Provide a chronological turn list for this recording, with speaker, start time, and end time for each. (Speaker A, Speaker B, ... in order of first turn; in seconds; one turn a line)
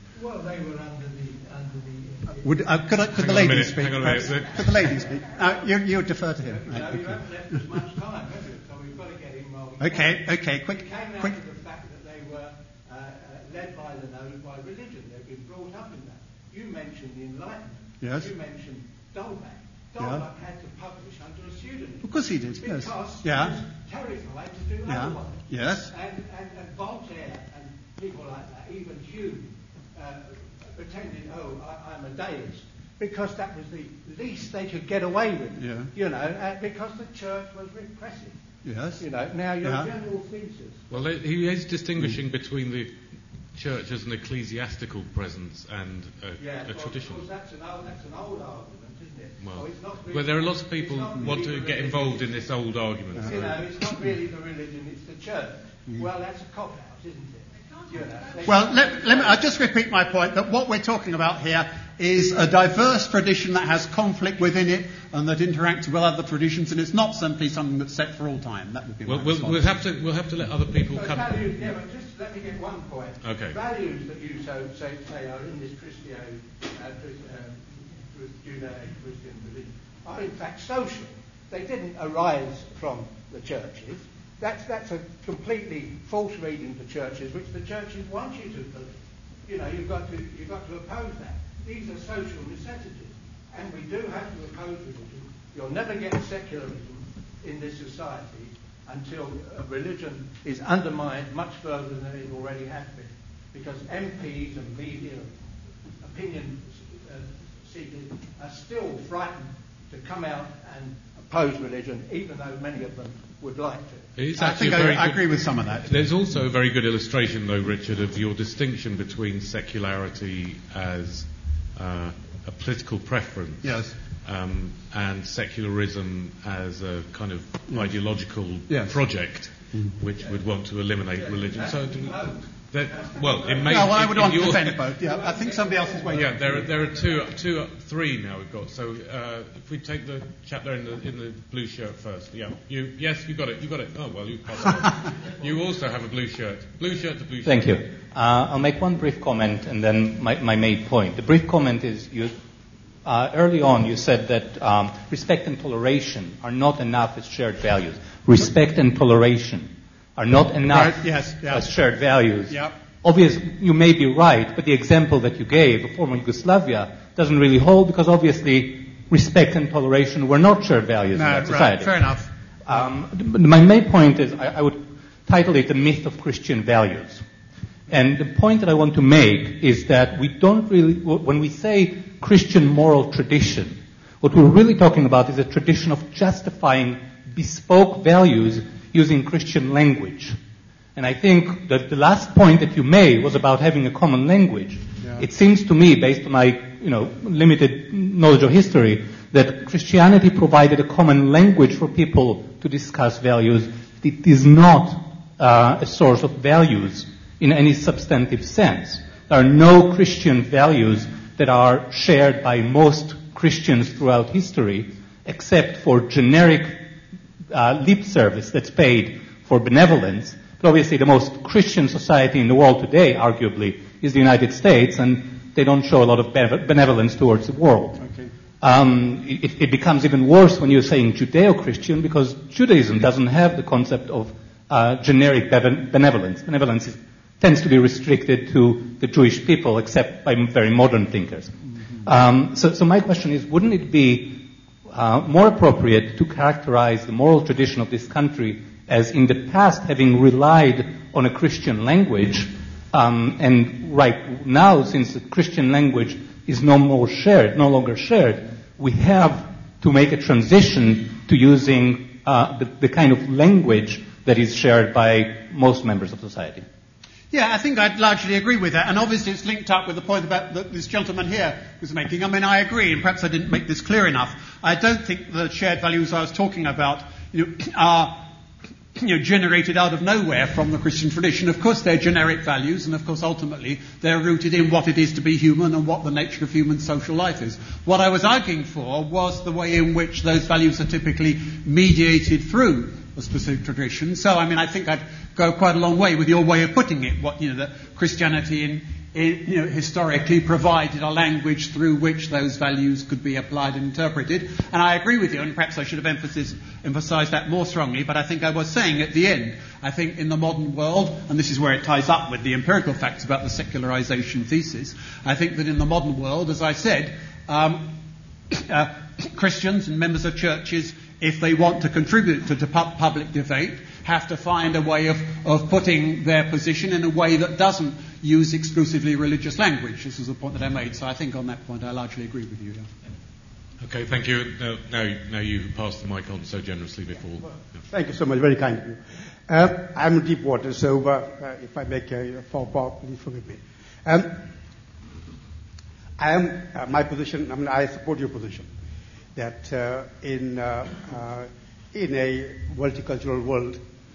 Speaker A: 0.1-2.7
Speaker B: 2.4-7.1
Speaker C: 3.1-4.9
Speaker A: 4.8-5.7
Speaker A: 6.4-38.4
Speaker B: 9.8-11.4
Speaker B: 18.0-18.3
Speaker B: 22.0-23.6
Speaker B: 24.9-25.9
Speaker B: 35.6-35.9
Speaker B: 38.6-39.0
Speaker A: 39.0-40.8
Speaker B: 39.6-39.9
Speaker C: 40.9-47.2
Speaker A: 46.4-52.5
Speaker C: 49.4-53.6
Speaker A: 53.1-59.5
Speaker B: 58.4-69.8
Speaker C: 69.0-71.6
Speaker A: 70.9-105.4
Speaker C: 73.2-73.6
Speaker A: 106.0-114.1
Speaker C: 114.2-134.9
Speaker B: 114.3-116.0
Speaker B: 123.6-124.0
Speaker B: 127.7-127.9
Speaker B: 128.7-129.0
Speaker A: 131.2-133.9
Speaker B: 133.7-136.6
Speaker A: 135.0-136.6
Speaker C: 136.1-147.7
Speaker D: 147.4-152.4
Speaker D: 153.0-171.9
Speaker B: 160.7-161.7
Speaker B: 162.5-162.7
Speaker B: 171.1-172.3
Speaker D: 172.6-177.2
Speaker D: 177.9-190.4
Speaker D: 190.9-216.9
Speaker D: 217.5-228.1
Speaker B: 228.0-228.3
Speaker D: 228.6-266.6
Speaker B: 267.3-278.3
Speaker B: 278.9-318.0
Speaker B: 318.5-332.9
Speaker C: 333.8-337.8
Speaker E: 337.7-344.4
Speaker E: 346.2-348.7
Speaker E: 349.3-353.8